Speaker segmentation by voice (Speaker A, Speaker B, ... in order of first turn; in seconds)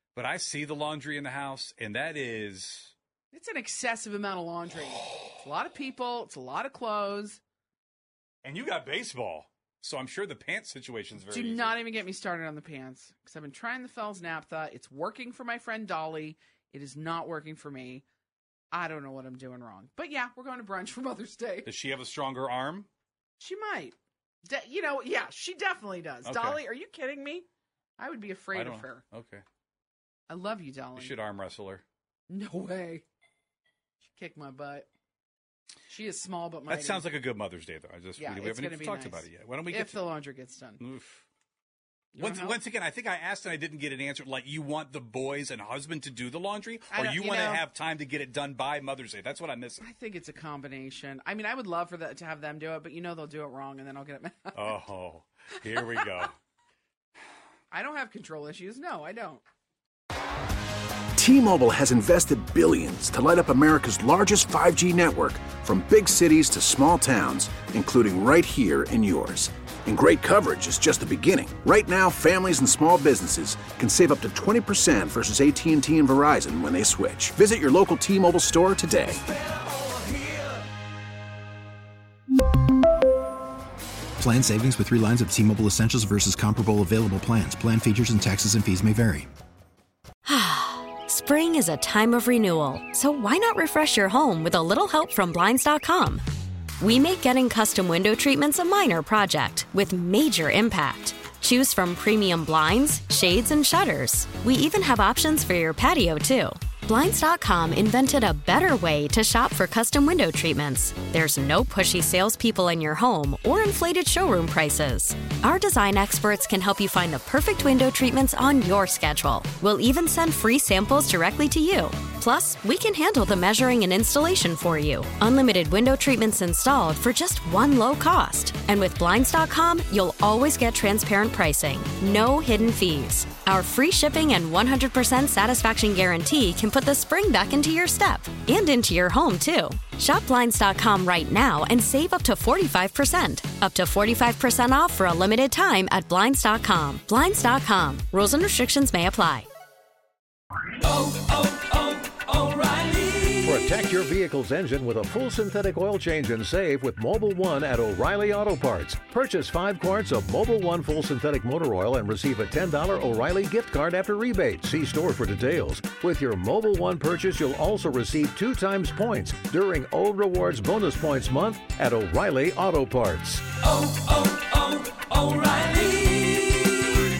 Speaker A: 0.1-2.9, 8.4-11.8, 21.6-22.9, 26.2-26.6, 28.5-29.4, 30.9-31.8, 36.7-40.0, 40.8-41.2, 42.2-49.8, 54.5-56.3
Speaker B: 3.3-7.4, 11.2-18.0, 18.7-21.7, 23.4-27.4, 28.0-29.0, 30.3-31.1, 32.3-33.0, 34.0-34.9, 35.9-37.0, 38.2-40.8, 42.1-42.5, 46.9-47.6, 49.8-54.8, 57.7-59.4
Speaker C: 61.1-79.6
Speaker D: 84.2-89.3
Speaker E: 90.2-96.2, 96.8-149.5, 150.8-153.4
Speaker F: 153.4-173.6, 175.3-175.9